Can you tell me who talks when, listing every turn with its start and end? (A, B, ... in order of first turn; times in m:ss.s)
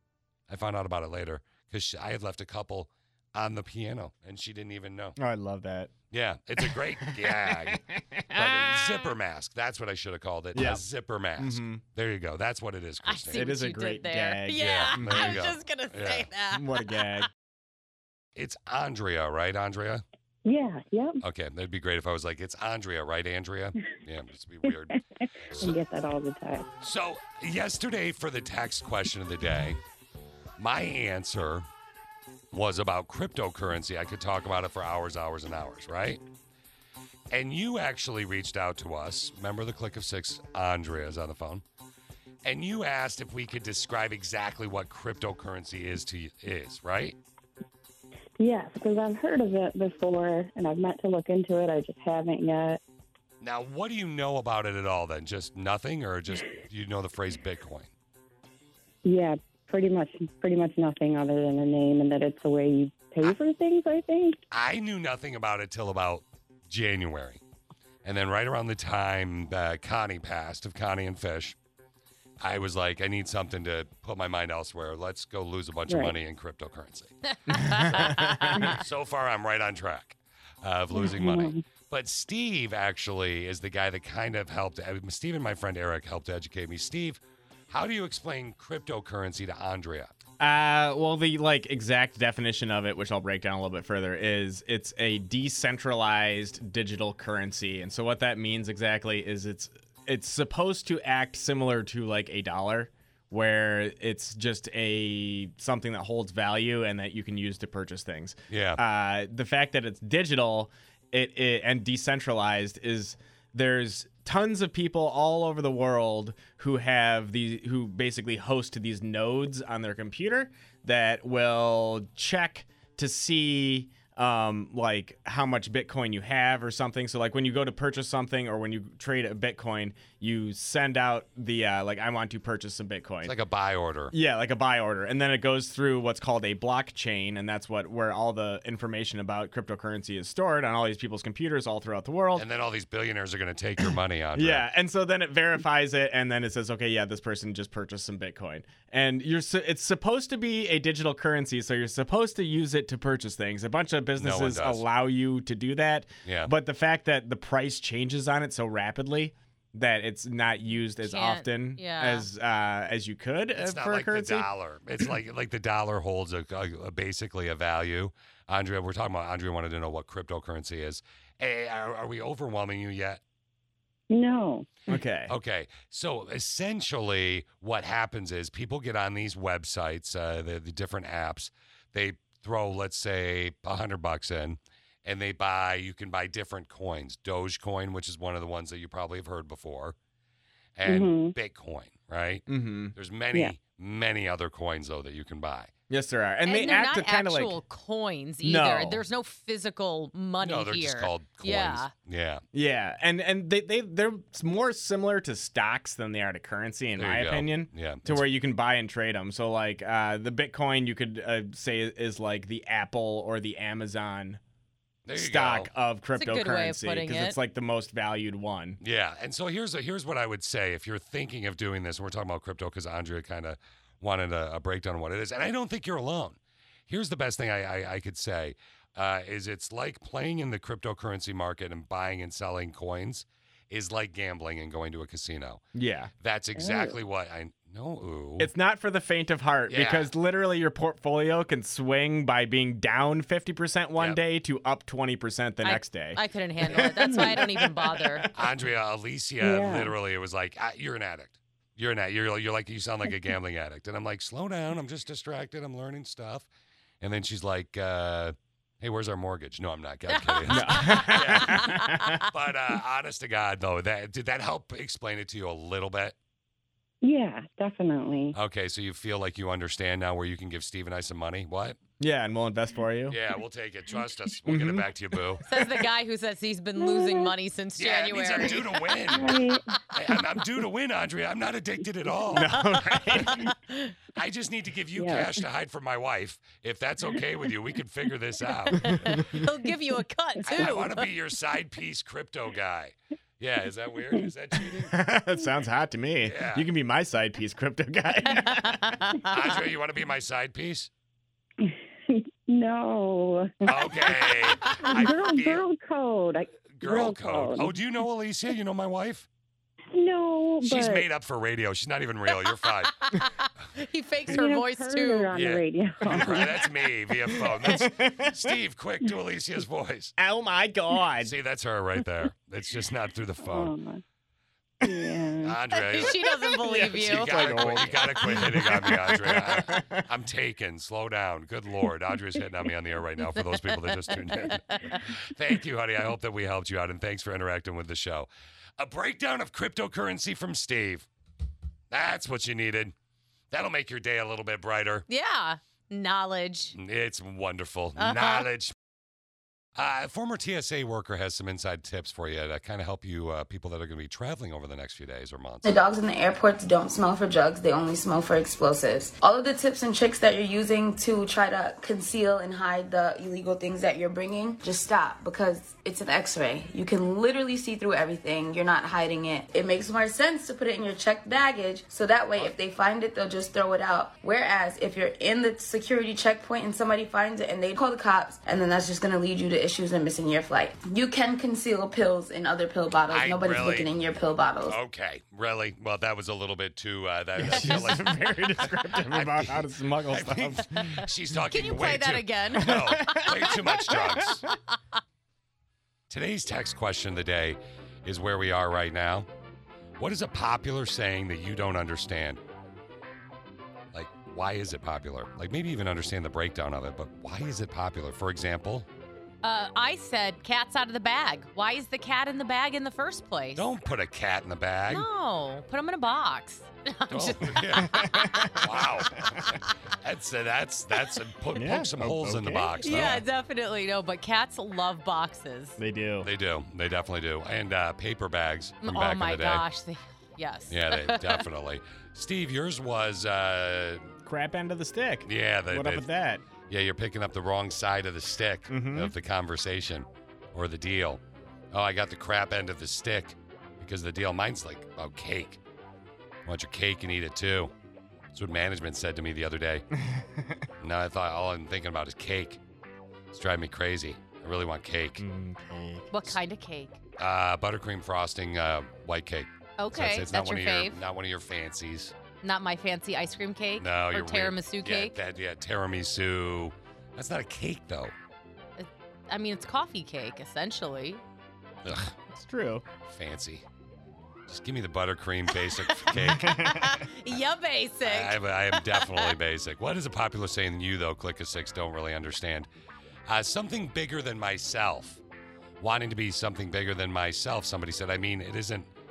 0:00.5-0:05.2 A
0:05.2-0:05.9 B
0:06.1-0:07.8 A
0:06.6-0:09.0 B
0:08.3-0:13.5 A
0:10.5-0:10.8 B
0:11.4-0:11.8 B
0:13.0-0:16.6 C
0:13.3-0:15.4 B
0:14.6-0:16.3 A
0:16.5-0:17.3 B
0:18.3-0:20.0 A
0:20.4-0:21.2 D
0:21.2-0:24.9 A
0:25.5-0:26.6 D
0:26.8-0:29.8 A
0:30.6-0:31.7 A
0:32.5-0:36.2 A
0:37.3-0:41.6 A
0:42.4-0:47.2 A
0:48.4-0:52.8 D
0:53.4-0:57.9 A
0:59.0-1:04.4 D
1:04.5-1:07.4 A
1:08.0-1:11.6 A
1:12.4-1:17.1 A
1:15.9-1:16.1 D
1:17.5-1:18.5 C
1:17.5-1:18.7 B
1:18.7-1:30.1 A
1:20.9-1:21.6 D
1:30.4-2:13.3 B
1:48.5-1:48.8 A
2:13.2-2:14.1 A
2:14.1-2:22.4 B
2:22.3-2:24.7 A
2:24.3-2:44.5 B
2:34.2-2:34.8 A
2:36.2-2:36.5 A
2:41.0-2:42.3 C
2:43.6-2:53.2 A
2:54.1-2:54.7 D
2:54.9-2:55.3 B
2:55.3-3:10.0 A
3:10.8-3:15.7 A
3:10.8-3:11.3 D
3:12.5-3:12.9 B
3:15.9-3:17.5 B
3:16.4-3:21.9 C
3:18.4-3:19.0 B
3:20.4-3:22.4 A
3:22.5-3:34.4 B
3:27.0-3:28.3 A
3:35.0-3:35.7 A
3:35.2-3:38.8 B
3:36.2-3:37.4 C
3:38.8-3:55.6 A
3:55.7-3:56.1 B
3:56.2-3:58.5 A
3:56.6-3:56.9 D
3:58.4-4:08.2 B
3:59.7-4:00.1 A
4:05.6-4:08.2 C
4:07.0-4:07.4 D
4:08.3-4:16.5 A
4:09.4-4:09.9 D
4:17.0-4:21.8 A
4:20.1-4:21.4 C
4:20.5-4:22.2 B
4:22.3-4:26.1 A
4:27.0-4:28.3 D
4:28.3-4:31.8 A
4:32.0-4:33.2 B
4:33.1-4:35.4 A
4:34.4-4:34.9 B
4:35.5-4:38.8 C
4:36.8-4:37.3 D
4:37.8-4:39.4 A
4:39.0-4:39.6 D
4:39.9-4:42.7 A
4:42.3-4:43.5 B
4:44.1-4:48.8 A
4:44.9-4:45.4 D
4:48.7-4:51.1 C
4:48.8-4:49.4 B
4:50.4-4:54.9 A
4:54.8-4:58.9 B
4:56.2-4:56.7 A
4:58.3-4:59.6 C
4:59.3-5:00.9 A
5:01.6-5:07.8 D
5:03.6-5:05.6 A
5:06.7-5:09.3 A
5:09.9-5:11.0 D
5:10.6-5:12.9 A
5:13.2-5:15.3 C
5:14.3-5:16.6 D
5:15.3-5:20.1 A
5:17.4-5:18.5 B
5:20.2-5:21.3 B
5:21.2-5:23.7 A
5:23.4-5:24.0 D
5:24.8-5:25.6 D
5:25.4-5:26.2 A
5:25.7-5:27.7 C
5:26.6-5:30.0 B
5:26.9-5:41.1 A
5:33.2-5:35.0 C
5:41.9-5:42.9 A
5:43.5-5:45.0 A
5:45.1-5:46.7 C
5:46.7-5:48.7 A
5:48.0-5:48.4 C
5:49.8-5:55.8 A
5:55.6-6:24.8 E
6:23.1-6:23.9 A
6:24.6-6:34.4 A
6:27.4-6:30.9 B
6:31.5-6:34.3 C
6:32.6-6:34.4 B
6:36.1-6:39.3 A
6:40.0-6:42.4 A
6:43.9-6:48.9 A
6:49.4-6:53.7 C
6:53.5-6:55.0 A
6:54.9-6:57.9 C
6:57.1-6:59.2 A
6:57.7-6:59.6 B
7:00.0-7:03.2 A
7:01.5-7:03.2 B
7:02.8-7:05.8 C
7:05.8-7:06.3 B
7:06.2-7:09.6 A
7:08.8-7:11.4 C
7:10.7-7:14.1 A
7:14.2-7:16.4 B
7:15.2-7:16.1 A
7:16.6-7:25.6 A
7:18.7-7:19.1 B
7:26.4-7:27.7 A
7:28.3-7:29.8 A
7:30.0-7:30.7 B
7:30.8-7:32.6 A
7:33.3-7:35.2 A
7:35.2-7:36.1 B
7:36.1-7:37.0 C
7:37.2-7:42.1 A
7:39.8-7:41.0 C
7:42.4-7:45.2 C
7:43.8-7:48.1 A
7:48.8-7:51.2 C
7:51.8-7:52.1 A
7:52.3-7:52.8 B
7:53.0-7:53.6 A
7:54.5-7:56.5 A
7:56.1-7:57.0 B
7:56.6-7:59.3 C
7:58.0-8:02.7 A
8:03.3-8:05.2 A
8:05.8-8:08.9 A